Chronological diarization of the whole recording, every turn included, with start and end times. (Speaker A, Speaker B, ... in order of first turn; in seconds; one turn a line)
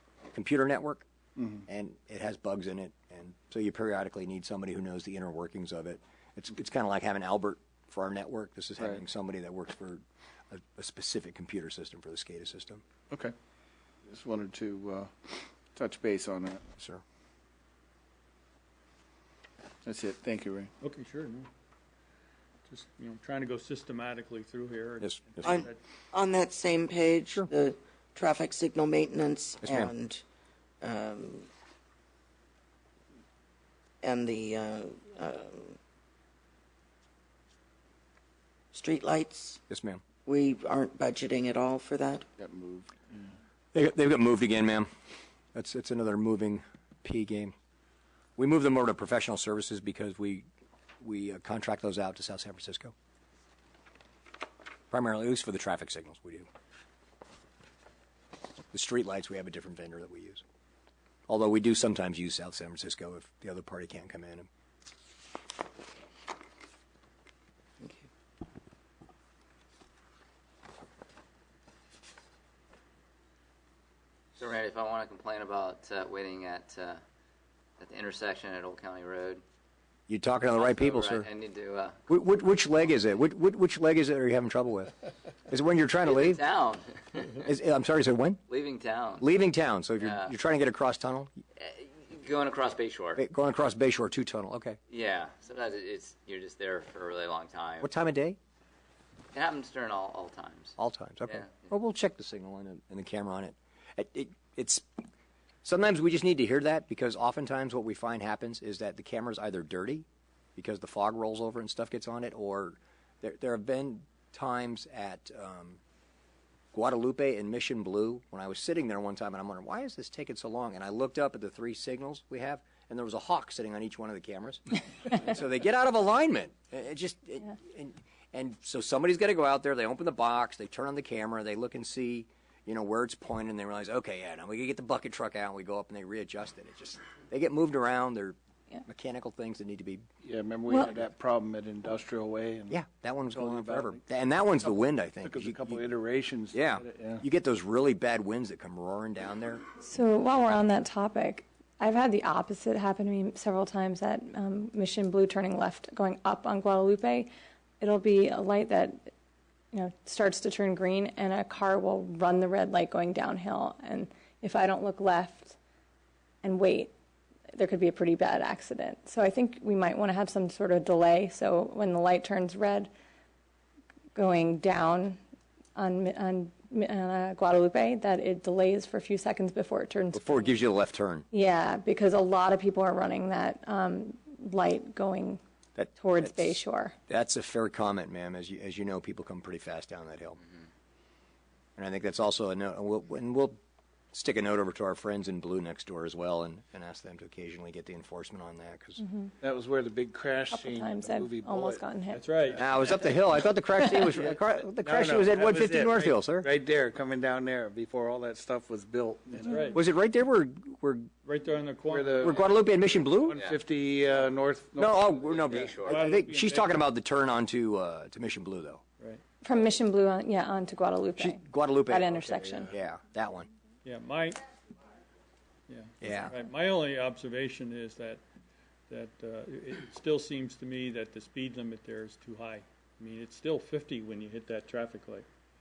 Speaker A: 0.3-1.1
Speaker B: 1.4-1.6
Speaker A: 1.7-12.8
Speaker B: 14.0-16.7
Speaker B: 19.8-20.7
Speaker C: 20.8-21.5
Speaker C: 22.7-25.8
Speaker D: 25.4-30.2
Speaker A: 29.6-29.9
Speaker D: 30.8-31.5
Speaker D: 34.0-35.8
Speaker D: 38.7-39.6
Speaker A: 39.7-40.0
Speaker D: 40.2-42.3
Speaker B: 42.4-43.3
Speaker A: 43.7-44.9
Speaker A: 45.5-47.5
Speaker A: 48.4-50.5
Speaker A: 51.0-52.9
Speaker A: 54.9-56.5
Speaker A: 58.7-60.4
Speaker A: 61.3-64.5
Speaker D: 67.8-68.1
Speaker E: 74.4-77.0
Speaker E: 77.8-79.4
Speaker A: 80.1-81.3
Speaker E: 80.5-82.0
Speaker A: 82.1-85.0
Speaker A: 85.5-86.4
Speaker E: 86.0-87.5
Speaker A: 87.4-88.4
Speaker E: 88.5-89.3
Speaker A: 89.2-91.3
Speaker E: 90.0-90.3
Speaker E: 91.6-93.2
Speaker A: 93.2-94.8
Speaker E: 94.9-97.9
Speaker A: 97.8-98.4
Speaker E: 99.3-100.8
Speaker A: 100.8-104.9
Speaker E: 101.3-101.7
Speaker A: 105.6-115.8
Speaker A: 116.7-140.0
Speaker B: 140.2-142.8
Speaker A: 142.7-145.8
Speaker B: 143.3-144.0
Speaker B: 145.2-147.2
Speaker A: 146.5-149.6
Speaker F: 149.8-157.3
Speaker F: 157.8-159.1
Speaker F: 159.7-165.6
Speaker F: 166.4-166.9
Speaker F: 167.5-172.9
Speaker F: 174.1-175.2
Speaker F: 175.7-180.6
Speaker A: 180.1-181.2
Speaker F: 181.3-185.4
Speaker A: 185.8-186.5
Speaker F: 185.9-186.9
Speaker A: 187.1-190.4
Speaker A: 191.8-193.6
Speaker A: 194.1-199.0
Speaker F: 199.0-199.3
Speaker B: 199.4-201.8
Speaker F: 200.5-202.2
Speaker C: 202.1-202.7
Speaker A: 202.6-206.5
Speaker B: 204.8-209.7
Speaker C: 209.5-209.8
Speaker A: 209.7-211.1
Speaker C: 211.2-212.4
Speaker B: 211.9-212.4
Speaker A: 212.2-213.4
Speaker B: 213.3-215.0
Speaker E: 213.3-213.6
Speaker A: 214.8-218.8
Speaker E: 215.2-216.0
Speaker C: 215.7-216.7
Speaker F: 219.4-222.7
Speaker A: 221.2-222.1
Speaker B: 222.3-222.7
Speaker A: 222.7-223.5
Speaker C: 223.8-224.5
Speaker C: 225.7-228.2
Speaker A: 226.0-226.4
Speaker C: 228.9-235.2